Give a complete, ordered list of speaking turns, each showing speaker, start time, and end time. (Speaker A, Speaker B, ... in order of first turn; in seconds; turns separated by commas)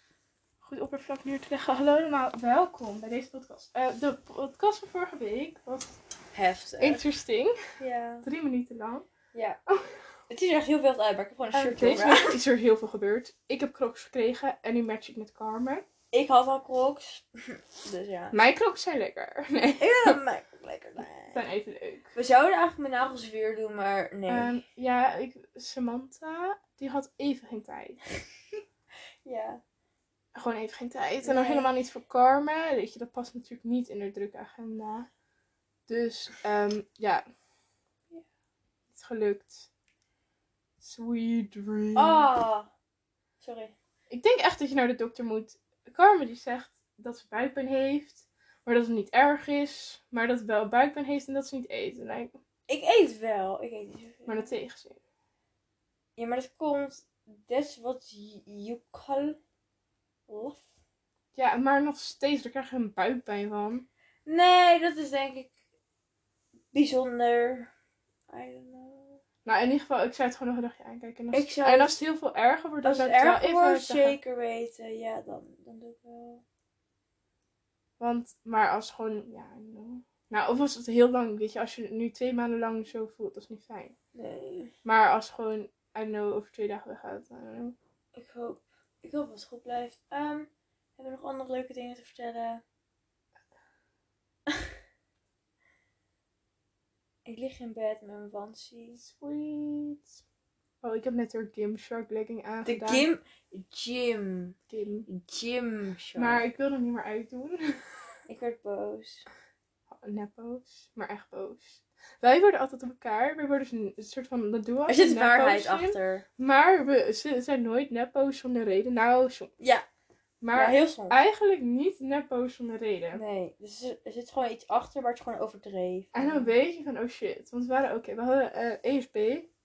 Speaker A: 0.6-6.0, Speaker B: 6.3-7.0, Speaker A: 6.8-7.6, Speaker B: 7.8-8.3, Speaker A: 8.2-9.1, Speaker B: 9.3-9.6, Speaker A: 9.7-10.1, Speaker B: 10.3-12.4, Speaker A: 11.5-15.8, Speaker B: 16.1-18.4, Speaker A: 18.3-20.2, Speaker B: 19.8-21.4, Speaker A: 21.3-22.1, Speaker B: 22.1-24.6, Speaker A: 24.3-28.0, Speaker B: 29.2-29.6, Speaker A: 30.3-35.1, Speaker B: 31.2-31.7, Speaker A: 35.9-37.2, Speaker A: 38.9-39.7, Speaker A: 40.8-42.3, Speaker B: 42.0-42.7, Speaker B: 43.4-43.7, Speaker A: 44.1-52.4, Speaker B: 52.7-54.5, Speaker A: 54.3-55.0, Speaker B: 56.2-59.4, Speaker B: 60.3-60.6, Speaker A: 61.3-63.9, Speaker B: 64.2-65.5, Speaker B: 66.7-67.7, Speaker B: 68.3-69.2, Speaker A: 69.5-74.2, Speaker B: 71.3-71.9, Speaker B: 72.8-76.4, Speaker A: 78.0-83.9, Speaker B: 84.1-84.7, Speaker A: 84.8-87.8, Speaker B: 88.1-92.6, Speaker B: 97.2-99.0, Speaker A: 99.0-100.2, Speaker A: 100.8-103.0, Speaker B: 102.6-106.4, Speaker A: 104.7-105.1, Speaker A: 106.2-107.8, Speaker B: 108.3-109.2, Speaker A: 109.9-119.5, Speaker B: 114.9-116.2, Speaker B: 119.6-119.8, Speaker A: 120.4-123.2, Speaker B: 120.5-121.2, Speaker B: 123.1-126.5, Speaker A: 126.1-129.5